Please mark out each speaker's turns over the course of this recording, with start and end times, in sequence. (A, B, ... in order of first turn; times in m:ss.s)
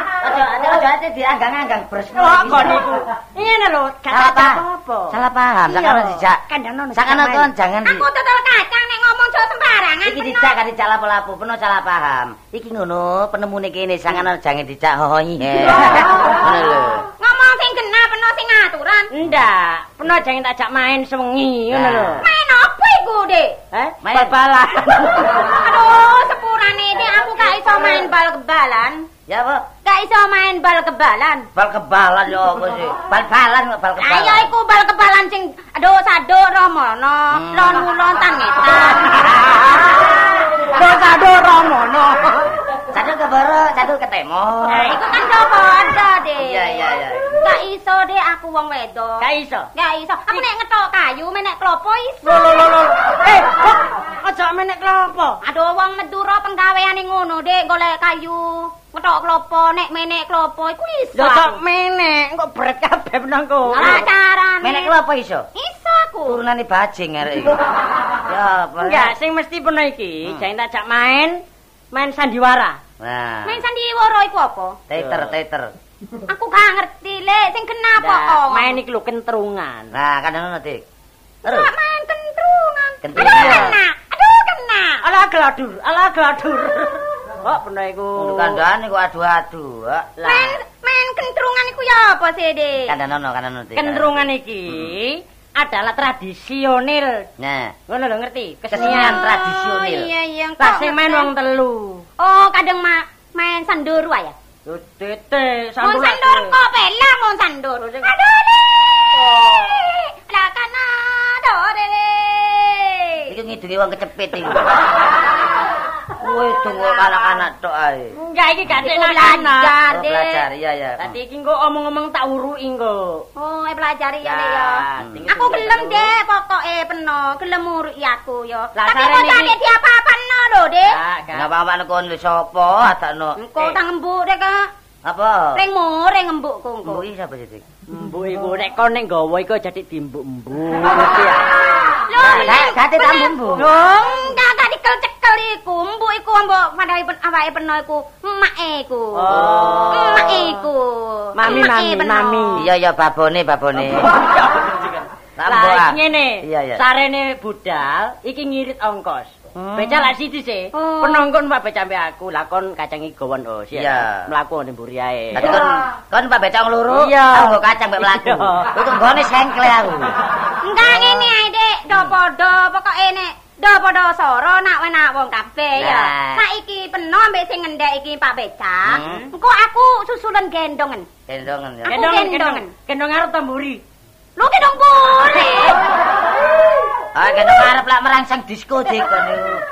0:00.2-0:02.9 A
0:02.1-0:07.5 B
0:04.1-0:06.4 A
0:06.9-0:08.1 A
0:07.8-0:10.5 C
0:10.0-0:17.1 A
0:17.2-0:19.1 C
0:19.1-0:22.2 B
0:21.7-0:22.2 A
0:22.2-0:23.6 C
0:23.7-0:25.4 B
0:24.0-0:25.1 A
0:25.4-0:29.0 C
0:29.3-0:29.7 A
0:29.8-0:31.5 C
0:31.5-0:34.5 A
0:34.0-0:39.3 C
0:37.3-0:37.9 A
0:39.1-0:42.5 B
0:42.7-0:44.9 A
0:44.7-0:45.0 B
0:44.7-0:46.8 C
0:46.4-0:47.5 A
0:47.4-0:52.7 C
0:49.2-0:49.7 B
0:52.2-0:55.4 B
0:55.4-1:01.6 C
1:01.1-1:04.0 B
1:03.7-1:04.9 C
1:04.6-1:05.4 A
1:05.5-1:06.4 C
1:06.2-1:07.6 A
1:08.2-1:09.1 A
1:08.8-1:11.4 B
1:11.9-1:12.8 B
1:13.0-1:13.6 A
1:13.4-1:14.8 C
1:14.9-1:15.7 A
1:15.0-1:15.3 B
1:16.3-1:18.8 C
1:18.0-1:19.9 B
1:19.9-1:20.8 A
1:21.4-1:25.0 C
1:21.4-1:21.7 A
1:23.0-1:23.8 A
1:23.1-1:23.8 B
1:25.0-1:28.6 B
1:28.2-1:30.2 A
1:30.2-1:30.6 B
1:30.2-1:32.9 C
1:32.9-1:34.2 A
1:33.7-1:37.3 B
1:37.4-1:37.8 A
1:37.9-1:39.2 B
1:38.7-1:40.1 A
1:38.8-1:41.3 C
1:40.6-1:42.0 B
1:42.2-1:44.3 C
1:44.7-1:46.6 B
1:45.8-1:53.3 C
1:53.3-1:54.8 A
1:56.2-1:58.1 A
1:58.1-1:59.8 B
1:58.8-2:00.4 C
1:59.9-2:01.1 A
2:01.0-2:03.2 B
2:03.4-2:11.0 C
2:04.2-2:06.1 B
2:05.0-2:05.2 A
2:08.7-2:09.5 B
2:10.9-2:11.5 B
2:11.3-2:13.4 A
2:13.4-2:14.7 C
2:15.0-2:15.6 A
2:15.5-2:17.0 C
2:16.8-2:17.6 A
2:17.9-2:21.4 B
2:22.1-2:32.6 C
2:22.2-2:22.4 B
2:22.2-2:23.7 A
2:29.1-2:30.6 B
2:29.3-2:30.0 A
2:31.3-2:32.7 B
2:32.5-2:34.1 A
2:34.0-2:45.6 B
2:35.4-2:36.8 A
2:39.5-2:40.1 A
2:40.7-2:41.2 C
2:43.7-2:44.3 A
2:45.3-2:50.1 A
2:46.9-2:48.7 B
2:50.6-3:01.1 C
2:50.9-2:51.2 A
2:55.8-2:56.4 A
2:58.8-2:59.3 A
3:01.3-3:02.0 A
3:01.8-3:02.7 C
3:01.9-3:03.8 B
3:04.4-3:05.8 C
3:07.1-3:09.6 A